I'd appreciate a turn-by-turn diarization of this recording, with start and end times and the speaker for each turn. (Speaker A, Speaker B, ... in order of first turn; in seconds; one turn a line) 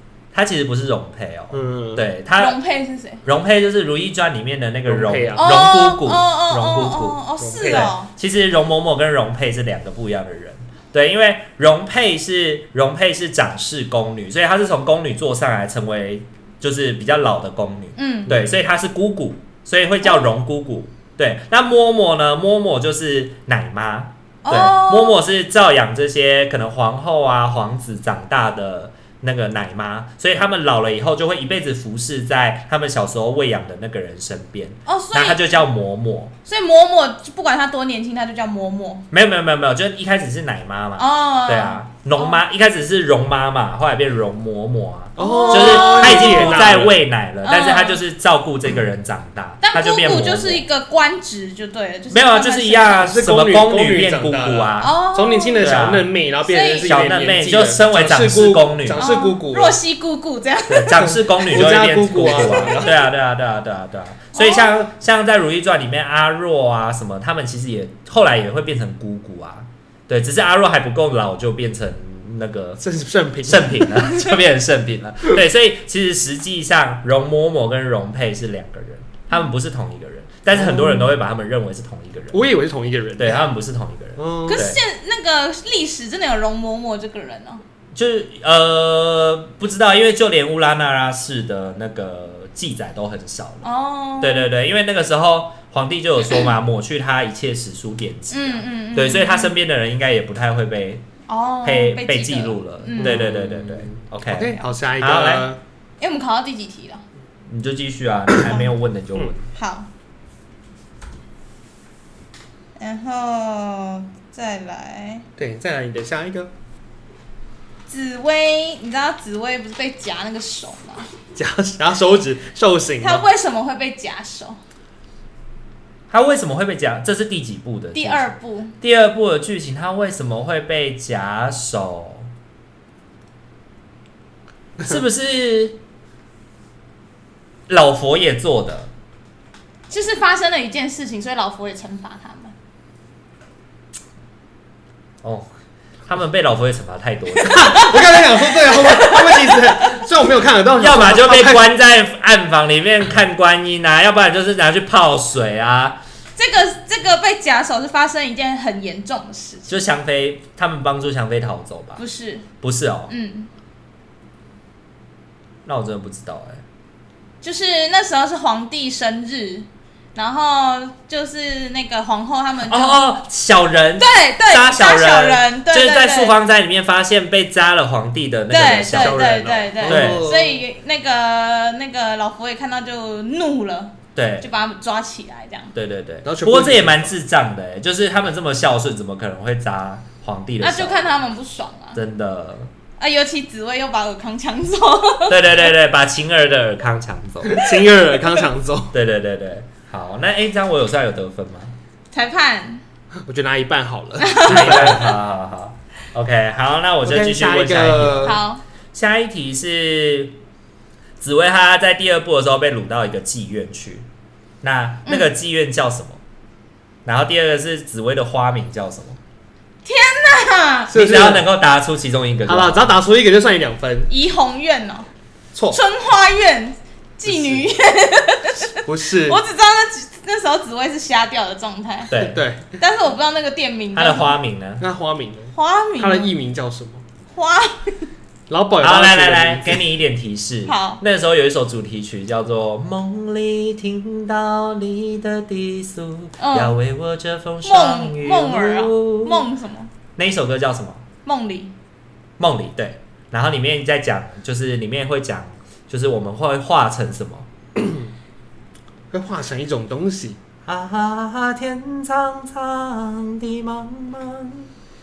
Speaker A: 0.3-2.6
Speaker B: 1.5-2.0
Speaker C: 2.4-3.2
Speaker A: 3.2-36.3
Speaker B: 4.9-5.5
Speaker C: 5.4-8.1
Speaker B: 7.4-7.9
Speaker C: 18.0-18.3
Speaker C: 24.4-25.2
Speaker C: 34.9-35.4
Speaker C: 36.5-39.1
Speaker A: 39.1-50.6
Speaker C: 41.0-42.4
Speaker B: 45.2-47.0
Speaker C: 45.2-46.8
Speaker C: 47.4-48.0
Speaker C: 49.6-53.1
Speaker A: 52.1-54.9
Speaker B: 53.1-59.8
Speaker C: 54.8-55.8
Speaker A: 55.6-56.1
Speaker C: 56.4-57.1
Speaker A: 56.9-59.1
Speaker C: 59.0-61.1
Speaker A: 60.7-72.8
Speaker B: 61.0-62.9
Speaker C: 62.2-63.1
Speaker C: 64.3-64.8
Speaker B: 72.8-74.0
Speaker A: 73.5-82.5
Speaker B: 80.5-81.1
Speaker B: 82.3-83.5
Speaker A: 83.2-84.8
Speaker B: 84.2-84.7
Speaker C: 84.5-87.6
Speaker A: 88.0-93.7
Speaker C: 93.6-94.5
Speaker A: 94.2-101.0
Speaker C: 98.3-99.5
Speaker C: 101.3-103.2
Speaker A: 101.6-105.5
Speaker B: 103.0-105.6
Speaker C: 106.0-107.0
Speaker A: 107.5-109.5
Speaker C: 109.5-109.9
Speaker C: 112.8-115.2
Speaker B: 115.4-116.5
Speaker C: 117.9-121.1
Speaker B: 121.3-123.3
Speaker C: 123.0-124.6
Speaker A: 126.1-132.3
Speaker C: 127.9-128.8
Speaker A: 134.8-135.8
Speaker A: 137.7-138.9
Speaker C: 139.9-142.5
Speaker A: 145.2-145.5
Speaker A: 146.1-147.7
Speaker C: 147.4-150.0
Speaker B: 147.4-151.7
Speaker A: 150.8-156.0
Speaker C: 156.4-159.8
Speaker A: 159.7-162.0
Speaker C: 162.0-162.5
Speaker A: 162.6-163.1
Speaker C: 163.1-163.5
Speaker A: 165.7-166.6
Speaker C: 167.4-173.0
Speaker A: 172.7-180.2
Speaker C: 174.0-176.4
Speaker C: 178.5-185.7
Speaker B: 178.9-180.6
Speaker A: 184.2-184.5
Speaker A: 185.8-191.1
Speaker B: 186.2-187.2
Speaker C: 190.6-192.0
Speaker A: 191.9-192.7
Speaker C: 193.0-195.4
Speaker A: 195.3-197.6
Speaker B: 197.4-198.9
Speaker A: 198.9-201.7
Speaker C: 202.1-202.8
Speaker B: 203.2-205.1
Speaker C: 204.2-205.1
Speaker A: 204.4-208.4
Speaker B: 207.0-208.4
Speaker C: 208.2-208.6
Speaker A: 208.9-210.4
Speaker A: 211.2-214.1
Speaker A: 214.6-216.2
Speaker A: 217.1-219.2
Speaker C: 219.8-220.9
Speaker A: 220.9-223.0
Speaker B: 220.9-221.5
Speaker B: 222.5-224.1
Speaker C: 224.1-225.1
Speaker B: 225.5-225.8
Speaker C: 225.7-232.1
Speaker B: 227.3-227.7
Speaker B: 228.7-229.4
Speaker A: 232.1-232.4
Speaker B: 232.1-232.7
Speaker C: 232.8-234.3
Speaker A: 233.9-234.8
Speaker B: 234.8-237.0
Speaker C: 235.6-236.3
Speaker C: 237.3-238.1
Speaker B: 238.5-239.8
Speaker A: 238.8-249.5
Speaker C: 240.7-241.0
Speaker C: 246.4-246.8
Speaker C: 247.7-249.9
Speaker A: 250.2-251.0
Speaker C: 251.2-251.7
Speaker A: 252.4-257.5
Speaker B: 257.8-258.1
Speaker B: 259.1-260.4
Speaker A: 260.7-264.7